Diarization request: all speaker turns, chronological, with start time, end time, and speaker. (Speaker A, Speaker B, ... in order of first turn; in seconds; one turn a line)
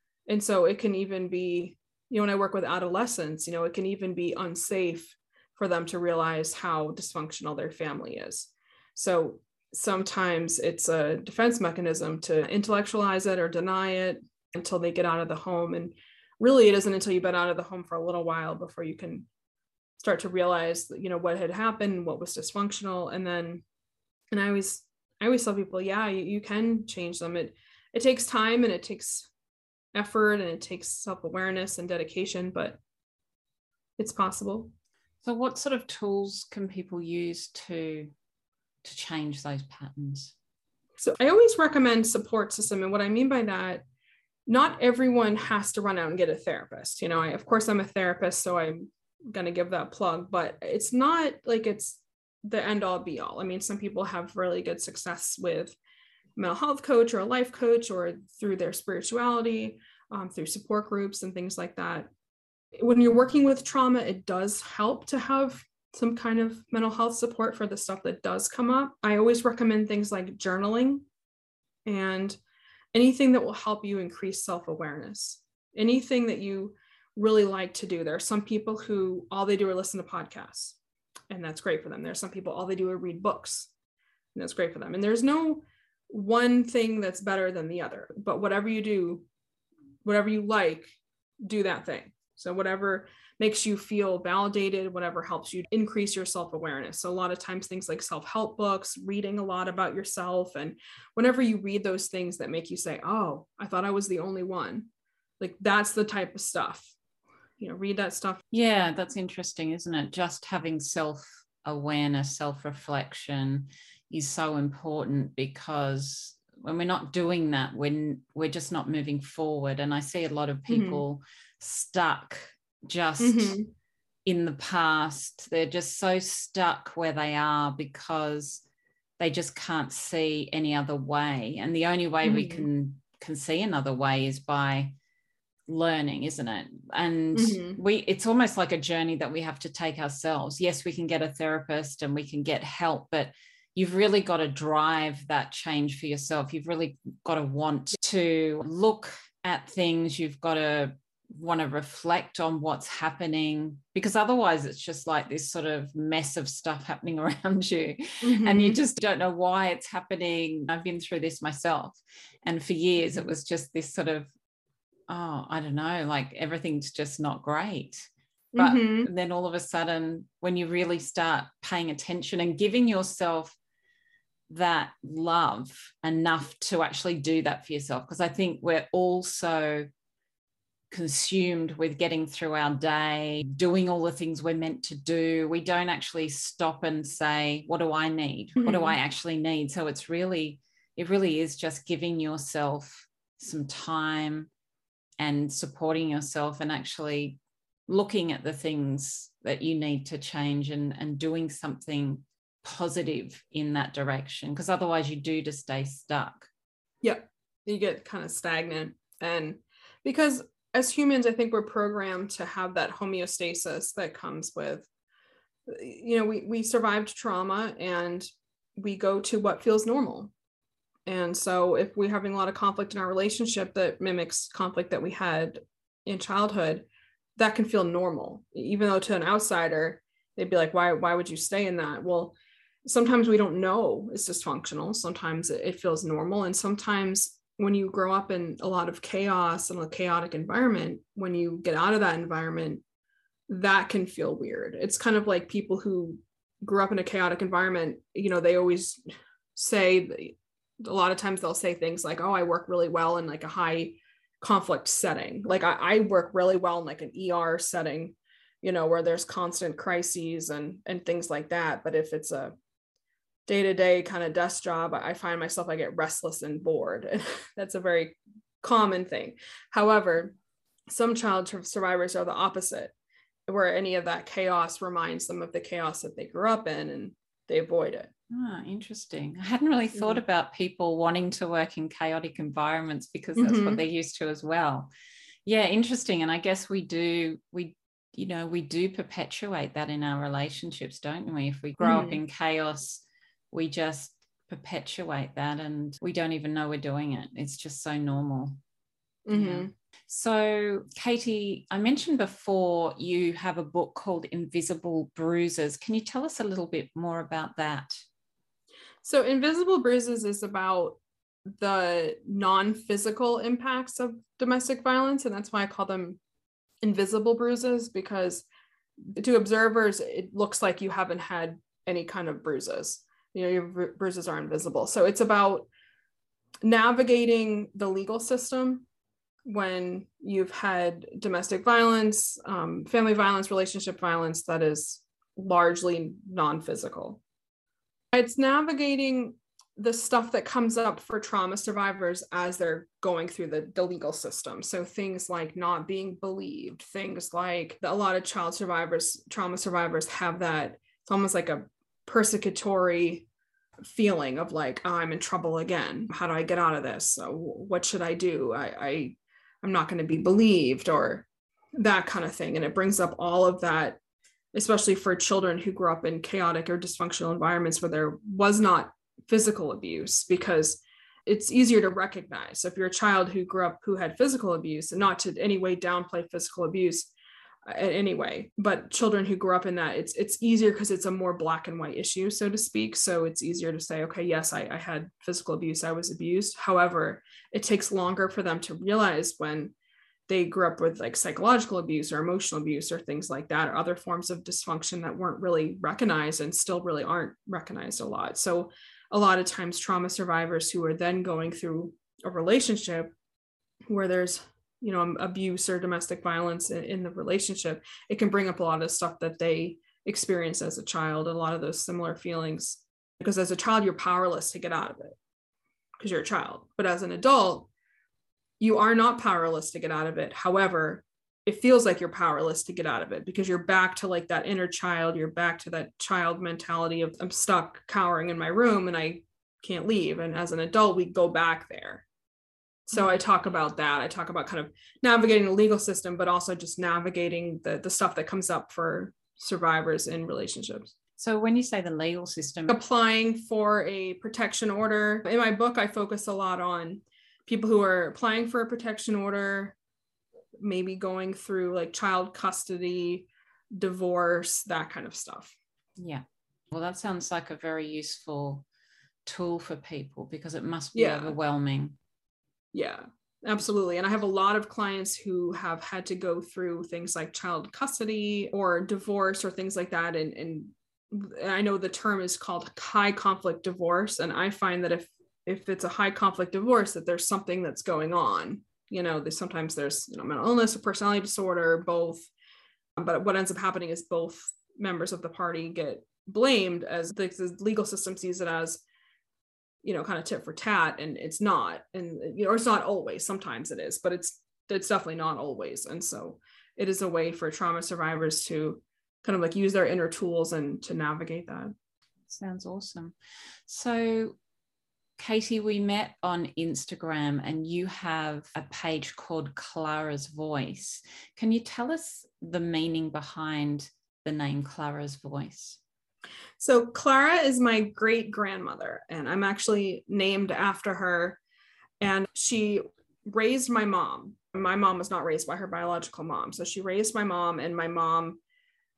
Speaker A: 0.3-19.3
Speaker A: 20.0-23.6
Speaker A: 24.3-29.3
Speaker A: 29.9-32.8
Speaker A: 34.0-34.7
Speaker B: 35.2-38.1
Speaker B: 38.8-40.3
Speaker A: 41.0-43.8
Speaker A: 44.5-55.8
Speaker A: 56.4-62.1
Speaker A: 62.8-71.0
Speaker A: 71.9-72.4
Speaker A: 72.9-80.8
Speaker A: 81.3-83.7
Speaker A: 84.3-89.3
Speaker A: 90.0-104.9
Speaker A: 105.4-106.9
Speaker A: 107.6-108.4
Speaker B: 108.5-123.6
Speaker A: 120.7-121.0
Speaker A: 123.2-123.7
Speaker B: 124.2-128.6
Speaker B: 129.2-134.9
Speaker A: 132.2-132.7
Speaker B: 135.7-164.3
Speaker A: 137.3-137.8
Speaker A: 158.2-158.8
Speaker B: 165.1-173.6
Speaker A: 168.5-169.1
Speaker B: 174.5-179.9
Speaker B: 180.9-194.5
Speaker A: 188.6-189.0
Speaker B: 195.2-206.5
Speaker A: 207.0-214.9
Speaker A: 215.7-220.3
Speaker A: 221.1-242.8
Speaker A: 243.5-249.0
Speaker A: 249.6-262.5
Speaker A: 263.5-270.4
Speaker A: 270.9-272.9
Speaker A: 273.5-278.1
Speaker B: 278.3-284.9
Speaker A: 280.0-280.2
Speaker A: 283.4-283.8
Speaker B: 285.4-298.6
Speaker A: 291.8-292.2
Speaker A: 299.3-299.7
Speaker B: 299.3-308.0
Speaker A: 309.0-311.0
Speaker A: 311.6-316.2
Speaker A: 316.8-318.5
Speaker A: 319.1-325.7
Speaker A: 326.6-328.9
Speaker A: 329.5-337.2
Speaker A: 338.1-353.3
Speaker A: 353.9-364.0
Speaker A: 364.5-377.1
Speaker A: 377.7-389.7
Speaker A: 390.3-403.1
Speaker A: 403.9-415.1
Speaker A: 416.0-417.7
Speaker A: 418.6-432.1
Speaker A: 432.9-440.9
Speaker B: 441.2-442.8
Speaker A: 442.7-449.8
Speaker A: 450.6-455.6
Speaker B: 456.0-458.6
Speaker B: 459.3-462.0
Speaker A: 460.9-461.4
Speaker A: 462.7-482.3
Speaker A: 483.0-488.8
Speaker A: 489.8-501.7
Speaker B: 502.3-503.1
Speaker B: 503.7-504.4
Speaker B: 505.2-515.8
Speaker A: 516.6-521.4
Speaker A: 522.0-528.4